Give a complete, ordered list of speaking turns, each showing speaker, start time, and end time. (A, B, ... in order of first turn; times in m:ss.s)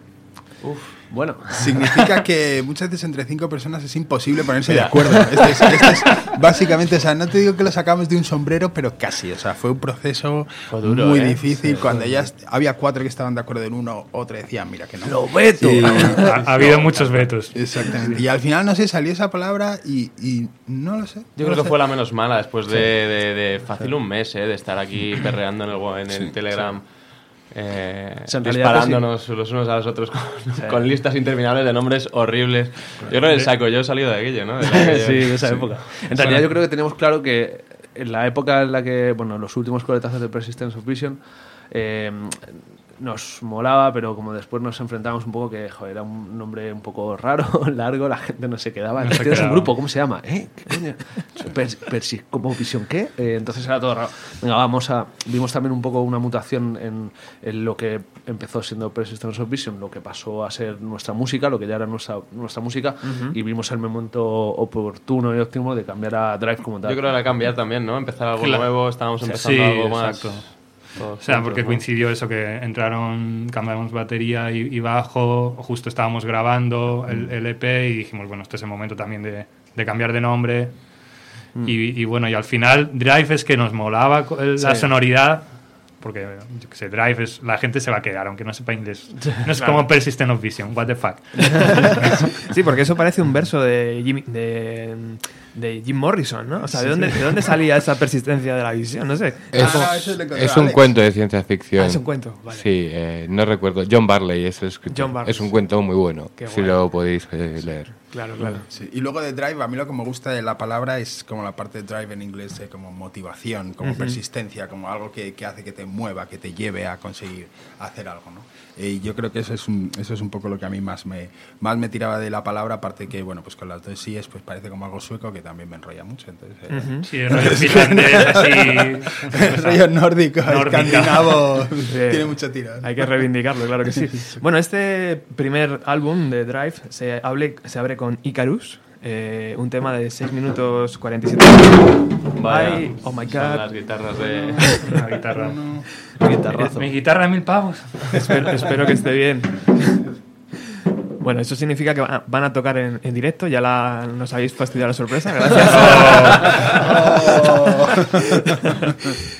0:00.6-0:02.0 A
0:01.5-0:16.3 B
0:04.7-0:05.2 C
0:10.7-0:11.3 C
0:10.8-0:12.3 A
0:15.0-0:17.4 A
0:16.1-0:17.6 D
0:17.5-0:21.8 B
0:21.4-0:35.6 C
0:26.5-0:26.8 A
0:28.3-0:29.1 A
0:30.6-0:30.9 A
0:33.2-0:33.5 D
0:34.6-1:07.1 A
0:36.2-0:36.5 B
0:49.0-0:50.0 D
1:03.0-1:03.4 E
1:06.8-1:11.8 C
1:08.4-1:20.7 D
1:21.6-1:32.3 D
1:24.6-1:24.9 A
1:29.2-1:29.5 A
1:32.4-1:39.9 E
1:36.9-1:37.1 A
1:39.5-1:48.6 F
1:39.5-1:40.9 B
1:41.8-1:42.6 E
1:44.9-1:45.7 E
1:46.4-1:46.8 E
1:48.1-1:48.6 E
1:48.7-2:12.9 B
1:53.8-1:54.2 E
2:06.7-2:07.1 E
2:07.0-2:11.6 D
2:11.9-2:23.8 E
2:22.4-2:24.8 C
2:24.4-2:25.8 B
2:24.7-2:25.8 D
2:26.2-2:26.9 A
2:26.5-2:29.0 D
2:28.2-2:30.0 E
2:31.2-2:39.0 E
2:35.5-2:36.8 D